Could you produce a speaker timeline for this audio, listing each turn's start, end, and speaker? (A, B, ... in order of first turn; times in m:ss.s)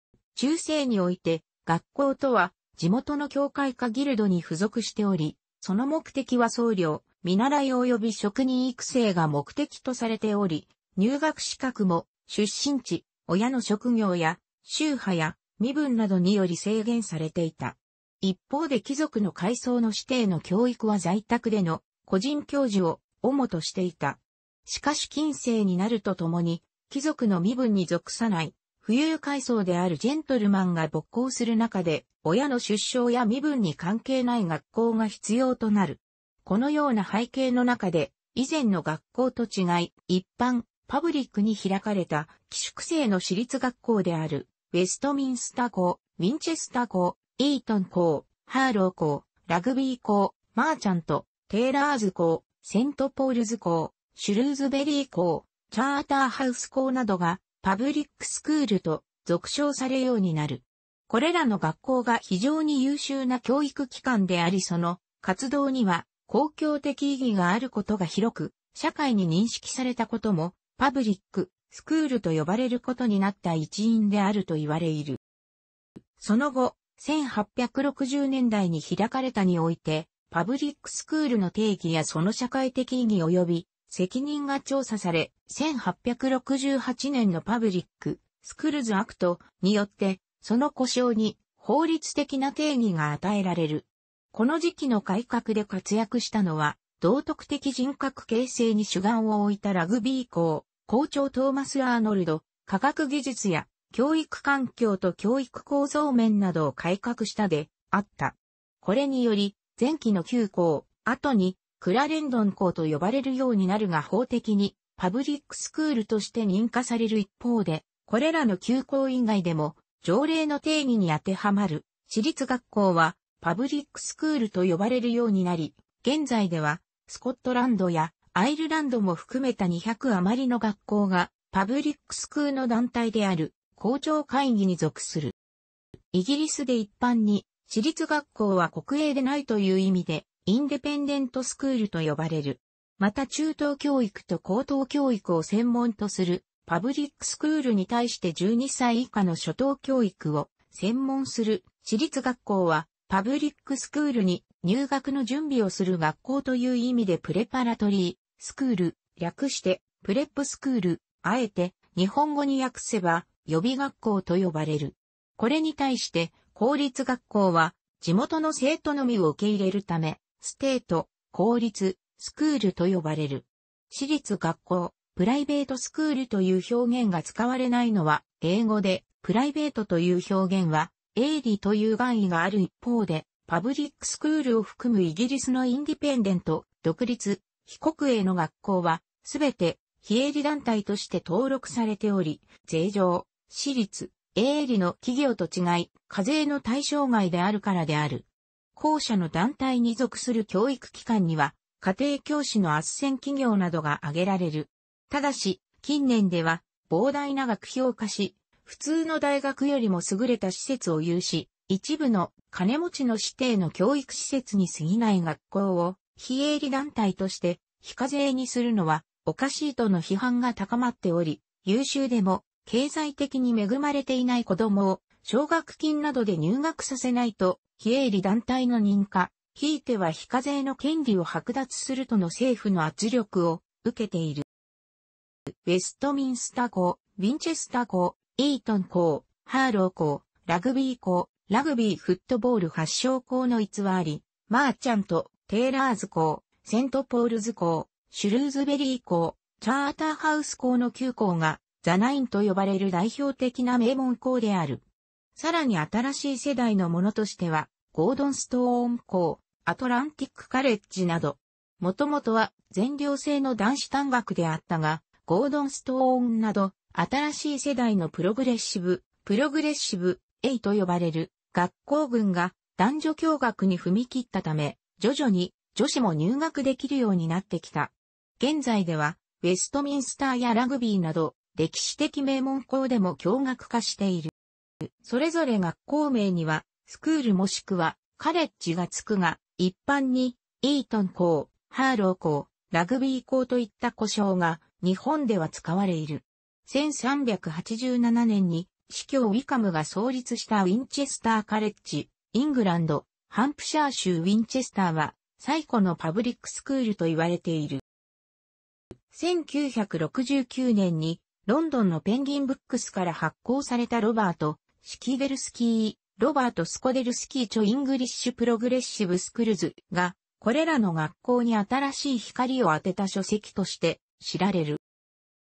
0:00.3-1:15.2 A
1:16.2-2:15.3 A
2:16.1-3:54.4 A
3:55.6-4:14.8 A
4:15.4-4:44.3 A
4:45.0-5:07.8 A
5:09.1-5:24.8 A